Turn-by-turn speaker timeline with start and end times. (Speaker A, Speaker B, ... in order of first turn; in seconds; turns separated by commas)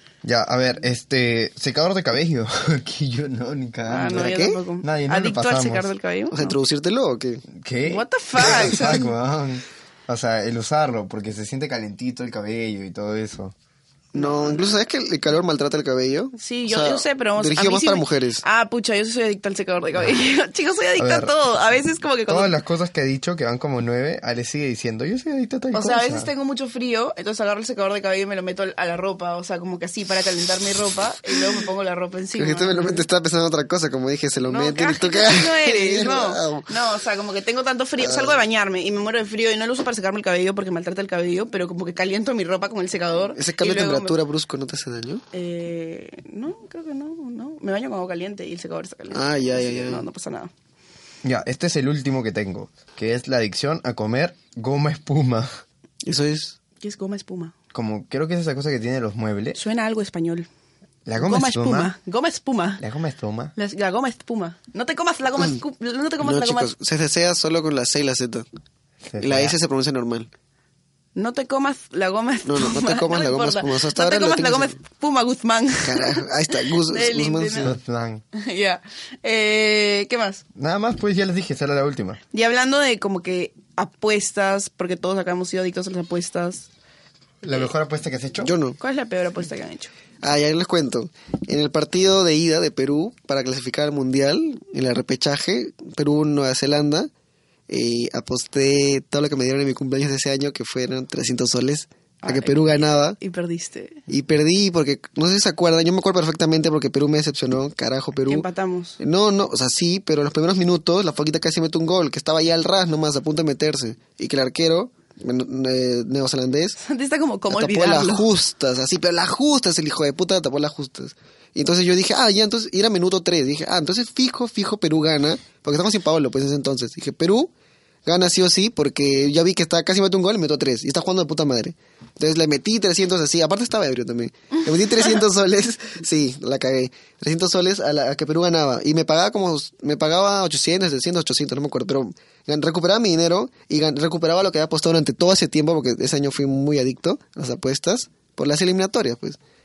Speaker A: 0.2-5.9, Speaker B: 3.9-6.6, Speaker C: 4.0-4.6, Speaker C: 6.3-7.5, Speaker A: 7.5-13.5, Speaker B: 7.8-9.1, Speaker C: 8.4-8.9, Speaker B: 14.1-14.6, Speaker C: 14.1-18.4, Speaker B: 16.4-22.6, Speaker A: 21.0-21.3, Speaker A: 22.3-26.3, Speaker B: 25.7-33.0, Speaker C: 32.4-36.7, Speaker B: 34.5-44.1, Speaker C: 38.0-38.4, Speaker C: 43.3-45.2, Speaker B: 45.3-50.5, Speaker C: 49.1-50.0, Speaker A: 51.2-55.6, Speaker C: 56.0-56.6, Speaker B: 56.8-57.5, Speaker A: 57.7-59.6, Speaker B: 59.5-60.5, Speaker A: 61.0-61.9, Speaker B: 61.2-62.8, Speaker A: 62.8-63.5, Speaker B: 63.5-66.7, Speaker C: 66.2-68.5, Speaker A: 69.1-69.5, Speaker C: 69.2-70.3, Speaker B: 71.2-76.2, Speaker C: 72.4-74.8, Speaker C: 75.8-77.8, Speaker B: 76.8-77.7, Speaker A: 77.6-78.2, Speaker B: 78.3-80.4, Speaker A: 80.5-82.2, Speaker B: 82.3-86.7, Speaker A: 87.4-88.5, Speaker C: 88.4-88.8, Speaker B: 88.8-89.9, Speaker C: 90.2-97.1, Speaker C: 97.7-103.2, Speaker B: 102.2-104.0, Speaker C: 104.1-108.5, Speaker B: 108.3-109.0, Speaker C: 109.0-116.8, Speaker B: 116.8-118.3, Speaker C: 117.5-127.5, Speaker C: 128.0-149.4